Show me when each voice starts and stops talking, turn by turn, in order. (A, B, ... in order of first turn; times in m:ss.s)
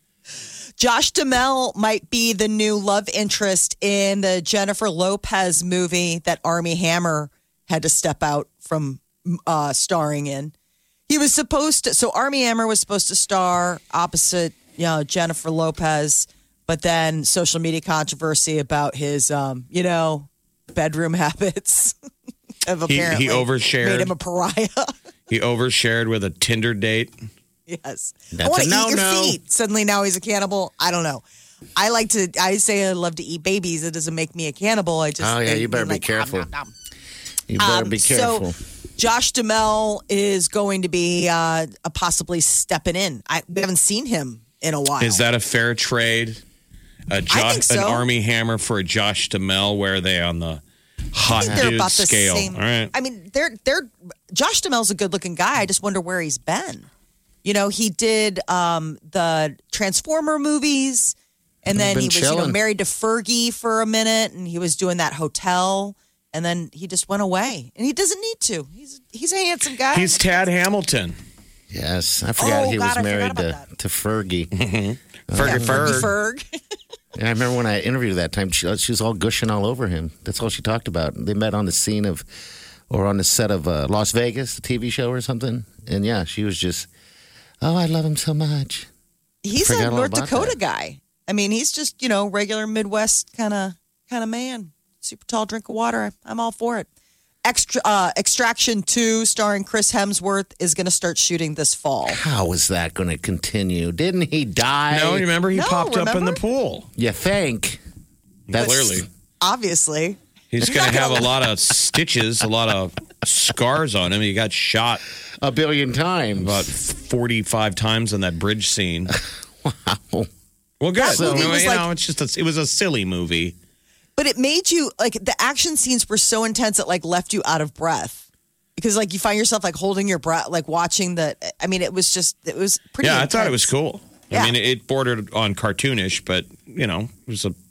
0:00.8-0:10.5 A
0:11.1-0:21.9 A
0:22.6-0:24.9 A
0:22.9-0:24.1 B
0:25.3-0:27.1 B
0:27.7-0:31.2 A
0:28.3-0:29.4 C
0:31.8-0:36.7 A
0:35.2-0:36.5 C
0:37.5-0:38.6 C
0:37.6-0:45.2 A
0:45.0-0:46.4 B
0:47.1-0:50.6 B
0:47.3-0:48.0 A
0:51.1-0:52.9 B
0:51.3-0:56.9 A
0:51.4-0:51.7 C
0:57.4-1:10.3 A
1:01.7-1:02.6 C
1:09.9-1:11.2 B
1:11.7-1:14.5 C
1:12.4-1:13.6 A
1:14.5-1:16.1 B
1:15.3-1:16.1 C
1:15.4-1:16.4 A
1:17.2-1:22.2 C
1:22.9-1:26.9 C
1:27.6-1:28.9 C
1:29.4-1:36.9 A
1:29.6-1:30.6 C
1:37.4-1:42.2 A
1:42.1-1:45.3 C
1:44.9-1:46.9 B
1:45.5-1:46.4 A
1:47.0-1:47.8 C
1:48.5-1:49.0 B
1:48.5-1:49.0 C
1:48.6-1:51.3 A
1:50.5-1:55.0 B
1:55.4-1:56.7 C
1:56.4-1:59.1 B
1:59.1-2:00.3 C
2:00.8-2:03.5 B
2:01.0-2:01.8 A
2:01.1-2:01.6 C
2:04.2-2:08.2 A
2:08.8-2:13.7 A
2:13.0-2:17.5 B